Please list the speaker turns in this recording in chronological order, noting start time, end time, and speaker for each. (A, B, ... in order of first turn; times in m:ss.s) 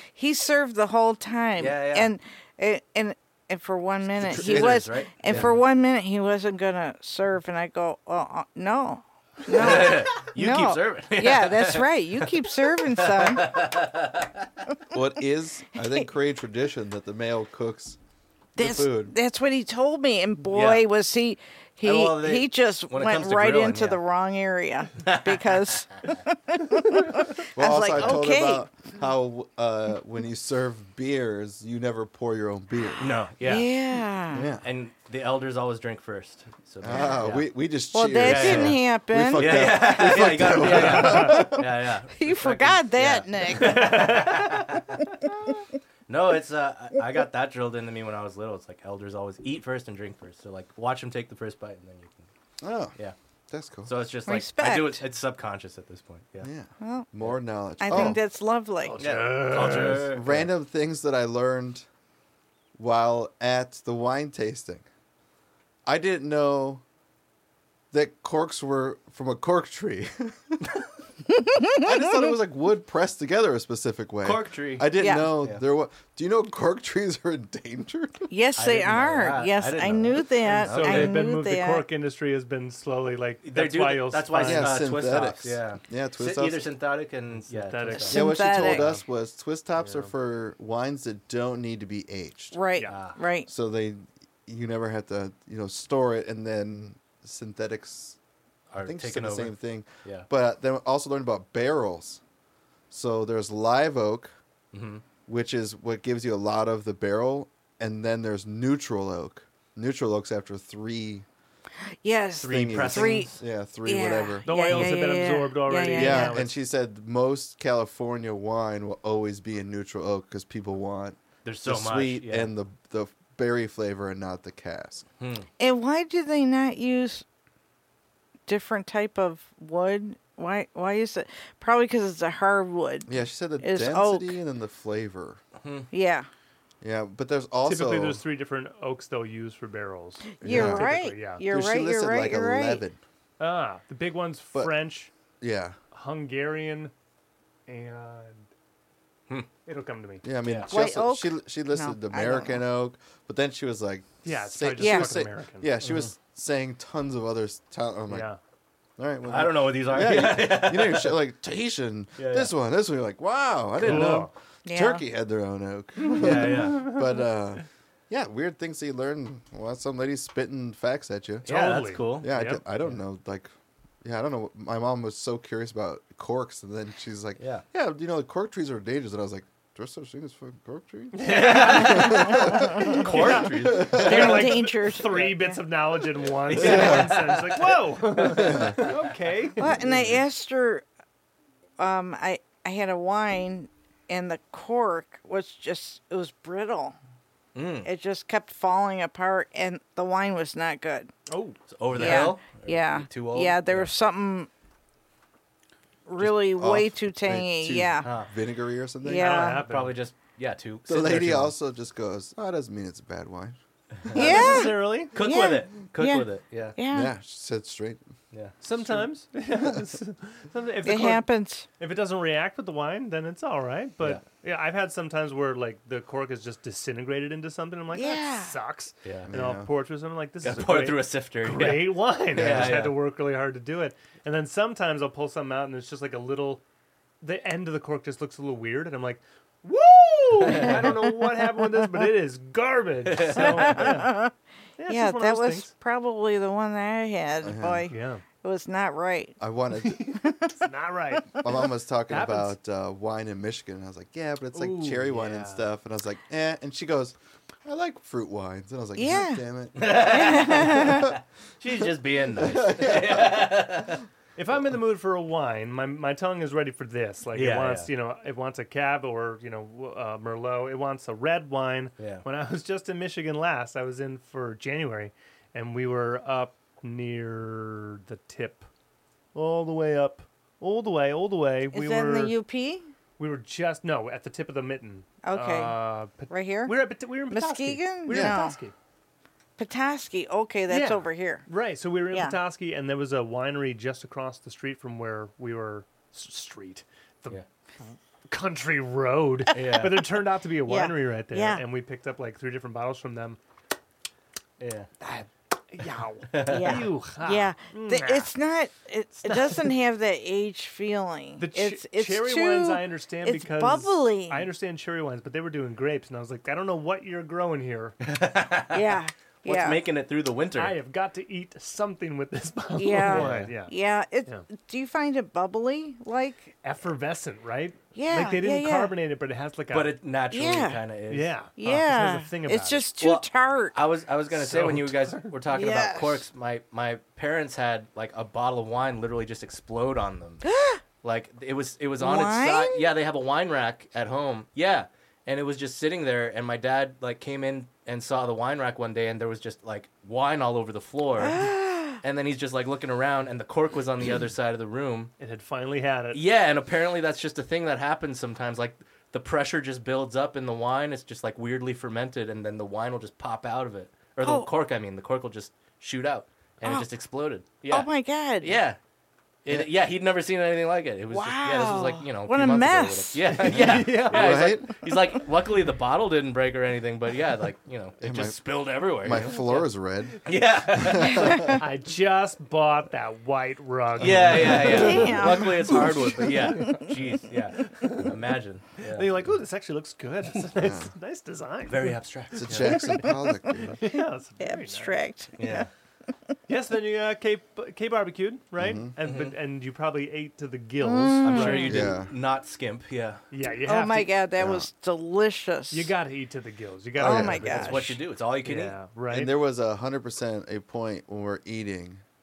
0:00.1-0:13.6 A
0:01.6-0:02.1 B
0:04.2-0:05.5 B
0:04.2-0:05.5 C
0:09.5-0:14.5 B
0:14.9-0:18.0 C
0:18.6-0:19.1 C
0:18.6-0:28.7 A
0:20.5-0:20.8 B
0:21.8-0:24.0 B
0:25.0-0:25.7 B
0:27.5-0:33.1 C
0:33.0-0:33.7 B
0:33.4-0:34.5 A
0:34.3-0:34.6 C
0:34.6-0:37.4 B
0:36.8-0:41.6 C
0:37.9-0:39.8 A
0:38.2-0:38.8 B
0:39.3-0:45.3 B
0:40.7-0:41.4 D
0:41.1-0:41.4 A
0:42.1-0:44.4 A
0:43.6-0:44.6 D
0:46.1-0:52.3 B
0:52.6-0:53.0 C
0:53.5-0:53.9 C
0:53.8-0:56.5 B
0:54.2-0:55.0 A
0:56.4-0:58.2 C
0:56.8-0:57.1 A
0:57.8-0:59.0 A
0:58.8-1:00.2 D
0:59.0-1:00.5 B
0:59.8-1:01.8 C
1:02.8-1:04.8 C
1:05.8-1:06.8 C
1:07.9-1:10.8 C
1:11.3-1:11.9 A
1:11.8-1:18.3 C
1:14.2-1:15.6 B
1:15.0-1:15.3 A
1:18.3-1:21.8 A
1:18.6-1:21.2 B
1:20.5-1:24.8 D
1:23.4-1:28.9 B
1:24.4-1:26.6 C
1:27.5-1:28.2 D
1:28.0-1:32.6 C
1:28.1-1:28.9 A
1:29.8-1:30.1 D
1:32.5-1:33.5 A
1:32.9-1:33.2 B
1:33.4-1:38.2 C
1:38.7-1:40.3 B
1:38.8-1:42.2 C
1:42.9-1:44.3 C
1:44.7-1:45.0 B
1:45.3-1:51.2 C
1:52.0-1:53.3 A
1:52.4-1:53.4 B
1:52.5-1:54.9 C
1:53.8-1:56.4 A
1:54.4-1:56.5 D
1:55.9-2:05.0 C
2:01.4-2:02.5 B
2:05.2-2:05.5 B
2:05.6-2:07.2 A
2:08.5-2:14.4 A
2:13.0-2:15.4 C
2:15.6-2:15.9 B
2:15.9-2:16.3 A
2:16.8-2:18.2 C
2:17.6-2:21.4 D
2:20.4-2:22.8 A
2:20.4-2:23.0 C
2:23.4-2:25.1 D
2:25.4-2:25.8 C
2:25.9-2:26.9 D
2:27.7-2:28.5 D
2:29.6-2:30.2 D
2:30.2-2:38.3 C
2:30.4-2:30.7 B
2:30.7-2:32.6 A
2:34.2-2:35.7 D
2:34.8-2:35.1 A
2:35.8-2:36.1 B
2:38.1-2:38.4 D
2:39.0-2:51.5 C
2:39.2-2:41.1 B
2:42.2-2:42.5 B
2:43.8-2:44.2 B
2:43.8-2:44.3 D
2:44.6-2:45.0 A
2:46.0-2:46.9 B
2:46.2-2:47.0 D
2:51.4-2:52.6 D
2:51.4-2:53.0 B
2:52.2-2:53.5 C
2:54.0-3:04.3 C
2:57.4-2:57.6 B
3:01.1-3:09.6 D
3:01.2-3:04.6 B
3:01.9-3:03.0 A
3:03.8-3:05.6 A
3:06.2-3:08.9 B
3:06.5-3:07.3 C
3:08.3-3:08.8 C
3:09.6-3:10.8 A
3:09.8-3:10.1 B
3:11.8-3:17.0 A
3:17.5-3:17.9 B
3:17.8-3:21.1 A
3:21.3-3:22.3 D
3:21.7-3:23.9 B
3:21.9-3:24.5 A
3:26.0-3:28.1 A
3:26.2-3:29.5 C
3:28.0-3:28.3 B
3:29.0-3:29.6 A
3:29.1-3:30.0 D
3:29.4-3:31.5 B
3:30.9-3:33.6 C
3:34.0-3:34.5 B
3:34.1-3:35.1 D
3:34.1-3:37.1 A
3:35.1-3:36.8 B
3:36.9-3:38.0 C
3:38.6-3:41.2 D
3:40.8-3:41.6 A
3:41.8-3:56.6 D
3:47.9-3:48.5 A
3:49.0-3:49.3 B
3:49.3-3:49.7 C
3:50.4-3:53.0 B
3:52.4-3:52.7 C
3:57.2-4:04.2 D
4:00.4-4:00.9 B
4:00.5-4:01.8 A
4:03.0-4:03.8 B
4:03.4-4:04.3 A
4:04.8-4:05.7 D
4:04.9-4:09.4 A
4:07.4-4:07.9 C
4:07.9-4:08.2 D
4:09.4-4:10.2 C
4:09.8-4:11.5 D
4:10.2-4:10.6 A
4:11.4-4:21.2 C
4:12.1-4:12.5 D
4:14.5-4:15.7 D
4:19.0-4:21.1 A
4:19.8-4:24.0 B
4:22.3-4:23.6 C
4:24.4-4:38.7 D
4:27.3-4:27.9 B
4:32.0-4:32.2 B
4:39.3-4:42.3 D
4:41.7-4:42.9 A
4:43.2-4:48.7 D
4:45.2-4:46.8 A
4:47.3-4:48.6 A
4:48.1-4:48.4 C
4:49.6-4:51.4 A
4:50.7-5:03.4 D
4:52.1-4:52.4 A
4:59.5-5:00.0 B
5:00.6-5:01.6 A
5:04.6-5:04.9 B
5:05.0-5:08.3 D
5:06.3-5:06.8 B
5:06.4-5:14.5 A
5:09.2-5:09.7 D
5:11.4-5:18.0 D
5:18.0-5:20.8 B
5:18.7-5:19.8 A
5:20.5-5:23.7 D
5:22.8-5:26.5 A
5:23.0-5:23.5 B
5:26.6-5:29.9 D
5:27.9-5:28.9 A
5:29.7-5:31.3 B
5:30.3-5:30.8 A
5:31.1-5:32.9 D
5:31.6-5:33.8 A
5:33.0-5:40.4 B
5:34.3-5:35.3 D
5:35.5-5:36.2 A
5:40.4-5:40.8 A
5:41.0-5:55.1 B
5:42.0-5:42.9 A
5:51.2-5:52.0 A
5:55.2-5:56.2 D
5:56.1-6:07.9 B
6:04.2-6:04.5 A
6:06.6-6:06.9 A
6:07.7-6:08.6 A
6:08.4-6:08.8 B
6:09.4-6:19.7 B
6:11.1-6:13.4 A
6:13.4-6:14.6 D
6:13.5-6:14.7 C
6:18.0-6:18.4 C
6:19.0-6:20.2 C
6:20.2-6:21.6 B
6:20.8-6:21.6 C
6:21.1-6:21.5 A
6:21.4-6:25.8 D
6:24.0-6:29.1 B
6:24.1-6:25.1 C
6:24.5-6:26.9 A
6:27.8-6:28.2 D
6:28.9-6:35.0 D
6:30.6-6:30.9 C
6:31.7-6:33.0 B
6:32.3-6:33.8 C
6:33.8-6:35.7 A
6:35.4-6:35.7 B
6:36.5-6:41.9 D
6:38.6-6:38.9 C
6:39.0-6:39.3 B
6:40.8-6:41.8 A
6:41.2-6:43.2 B
6:41.6-6:42.1 C
6:43.3-6:44.1 D
6:43.6-6:45.9 A
6:44.4-6:44.7 C
6:45.7-6:47.8 D
6:47.0-6:47.5 C
6:47.0-6:48.0 A
6:47.4-6:48.7 B
6:48.4-6:49.3 D
6:49.1-6:52.0 C